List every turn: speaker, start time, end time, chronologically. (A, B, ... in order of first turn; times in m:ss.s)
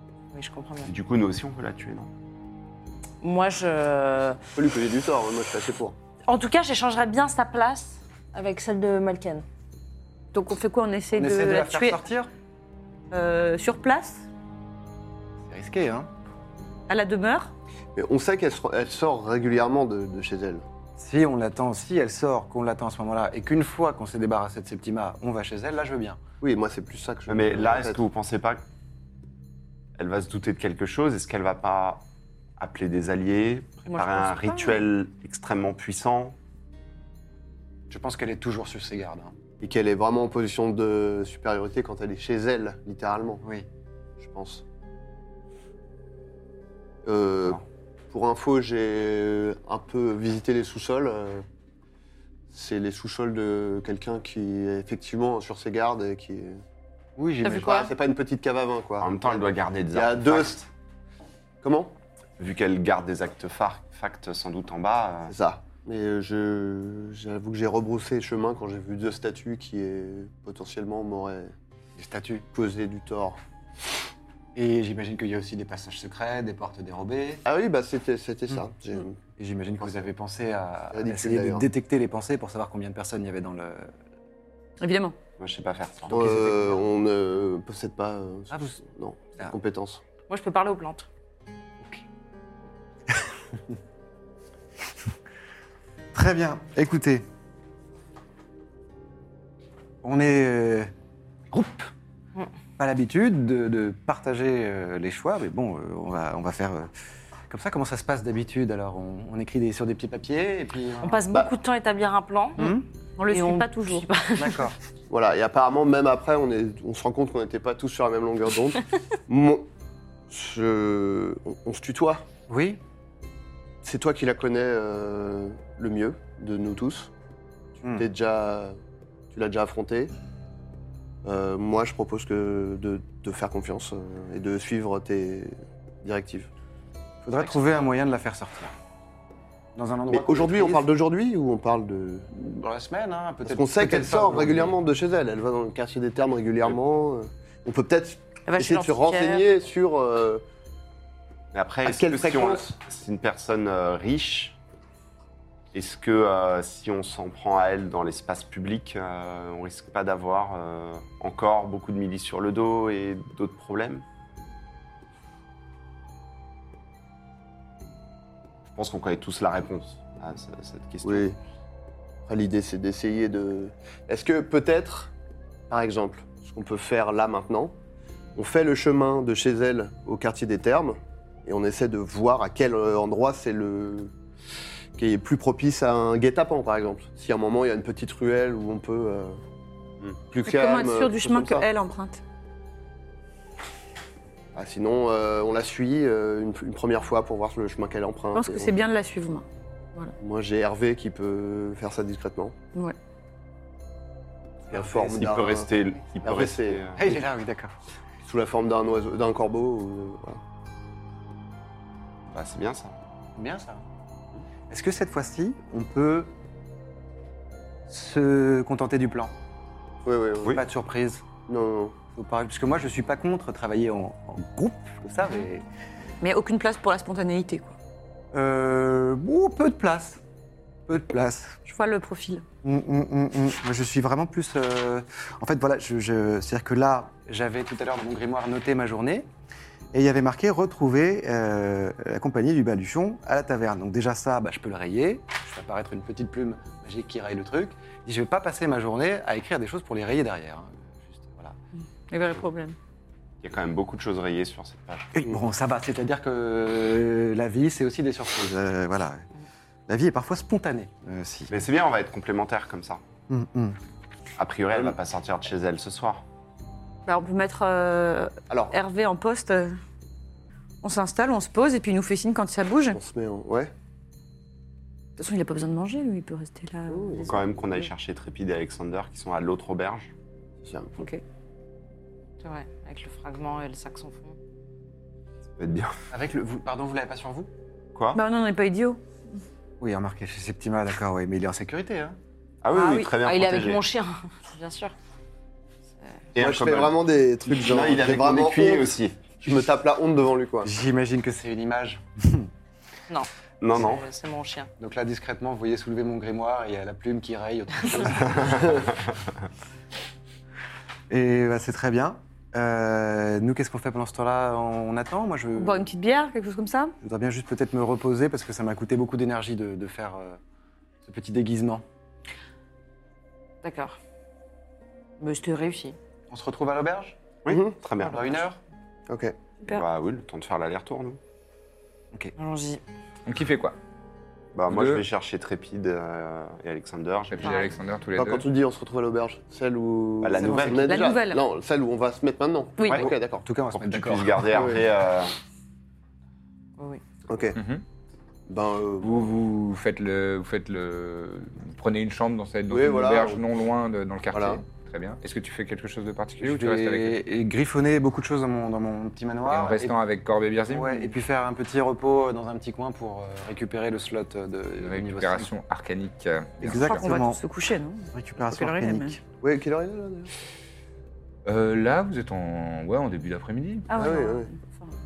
0:00.3-0:00.9 A
0:00.8-0:02.1 B
0:03.2-0:04.4 A
0:04.6-0:06.0 C
0:06.2-0:09.4 A
0:10.3-0:12.0 D
0:11.1-0:12.3 E
0:13.1-0:14.3 D
0:15.4-0:16.1 E
0:16.9-0:17.5 D
0:17.9-0:20.6 C
0:21.0-0:26.2 E
0:26.4-0:28.0 C
0:27.3-0:28.6 B
0:30.0-0:32.0 B
0:32.6-0:36.4 B
0:37.9-0:39.3 E
0:39.6-0:43.4 C
0:43.4-0:43.7 E
0:44.2-0:44.6 C
0:47.0-0:51.4 C
0:52.5-0:56.6 C
0:57.2-0:57.9 E
0:57.4-0:57.9 A
0:57.6-1:00.6 C
0:59.0-1:00.6 B
1:01.6-1:01.9 C
1:02.4-1:05.3 B
1:05.3-1:11.5 C
1:12.0-1:12.4 E
1:12.5-1:13.4 C
1:14.5-1:17.4 E
1:17.4-1:19.2 C
1:19.4-1:23.9 E
1:20.9-1:21.7 C
1:24.8-1:25.2 D
1:25.4-1:26.1 B
1:26.1-1:30.0 C
1:26.1-1:26.8 E
1:28.5-1:28.8 E
1:30.3-1:31.1 A
1:36.1-1:37.2 E
1:40.0-1:40.9 E
1:41.5-1:41.9 E
1:42.8-1:46.9 E
1:47.5-1:51.3 E
1:51.0-1:52.7 A
1:52.6-1:52.8 E
1:52.6-1:54.1 D
1:53.3-1:54.7 A
1:54.4-1:54.7 E
1:55.1-1:59.7 C
2:00.3-2:02.2 C
2:02.5-2:02.8 E
2:03.8-2:07.1 C
2:07.8-2:08.1 E
2:07.9-2:08.8 C
2:09.3-2:10.1 C
2:11.2-2:16.5 C
2:17.2-2:18.7 E
2:19.8-2:20.9 E
2:20.1-2:22.3 C
2:22.3-2:24.8 E
2:23.4-2:30.4 C
2:28.5-2:29.5 A
2:31.5-2:34.6 B
2:31.8-2:32.8 C
2:35.7-2:44.0 B
2:48.7-2:51.3 B
2:51.0-2:51.4 C
2:52.2-2:55.1 C
2:55.7-2:57.7 C
2:58.4-3:04.1 C
3:05.0-3:09.4 C
3:10.3-3:11.7 C
3:10.4-3:12.2 D
3:14.5-3:18.7 C
3:18.3-3:19.4 D
3:20.2-3:22.6 C
3:24.7-3:25.2 E
3:24.7-3:25.7 C
3:25.1-3:27.0 B
3:26.2-3:26.9 C
3:26.9-3:27.7 E
3:28.2-3:30.4 C
3:32.3-3:33.0 B
3:33.4-3:33.8 E
3:34.7-3:36.3 E
3:37.9-3:39.3 E
3:40.0-3:40.6 C
3:40.5-3:41.2 E
3:41.5-3:42.0 C
3:42.1-3:45.6 E
3:46.2-3:47.7 D
3:48.3-3:50.2 E
3:50.9-3:51.6 E
3:51.6-3:52.4 D
3:52.6-3:59.3 E
3:59.9-4:11.6 E
4:12.1-4:12.8 D
4:13.4-4:15.1 B
4:15.1-4:19.3 E
4:19.9-4:21.5 E
4:21.5-4:23.0 B
4:23.3-4:23.8 E
4:24.4-4:26.2 B
4:27.0-4:29.8 D
4:30.8-4:33.0 D
4:32.9-4:33.7 C
4:35.2-4:37.8 D
4:36.9-4:37.4 C
4:37.2-4:40.1 B
4:40.6-4:41.0 C
4:41.0-4:41.2 D
4:42.4-4:44.4 A
4:45.6-4:46.0 B
4:46.1-4:47.5 E
4:47.9-4:48.2 B
4:48.1-4:49.0 D
4:49.8-4:52.2 E
4:52.6-4:53.8 B
4:52.7-4:53.1 D
4:53.2-4:54.9 A
4:56.3-4:59.4 B
4:56.4-5:00.7 C
5:00.6-5:02.5 E
5:03.1-5:04.7 A
5:03.6-5:04.0 B
5:04.8-5:08.8 E
5:11.1-5:15.9 E
5:15.5-5:16.9 D
5:17.0-5:20.4 E
5:21.0-5:21.8 E
5:23.6-5:24.0 A
5:25.2-5:26.0 A
5:26.3-5:27.2 E
5:27.4-5:28.4 B
5:27.5-5:27.8 C
5:28.0-5:28.6 E
5:29.1-5:29.3 C
5:29.7-5:31.2 B
5:32.4-5:32.8 A
5:33.2-5:33.8 F
5:34.5-5:37.6 B
5:34.7-5:35.0 F
5:37.3-5:38.5 F
5:37.4-5:37.7 A
5:38.2-5:43.5 C
5:40.2-5:41.0 B
5:40.4-5:41.0 E
5:40.8-5:41.4 D
5:42.8-5:43.1 D
5:42.8-5:43.1 B
5:43.4-5:44.8 E
5:43.7-5:45.3 B
5:44.5-5:44.8 C
5:47.3-5:47.6 C
5:47.5-5:47.8 F
5:48.5-5:49.3 C
5:49.0-5:57.2 F
5:52.7-5:53.4 C
5:54.3-5:54.6 C
5:56.4-6:00.0 E
5:59.4-6:01.2 F
6:00.7-6:05.5 E
6:04.8-6:07.2 F
6:06.6-6:07.4 E
6:06.7-6:09.2 D
6:08.1-6:09.2 E
6:09.4-6:10.3 C
6:11.4-6:13.9 F
6:13.9-6:14.9 D
6:13.9-6:14.5 C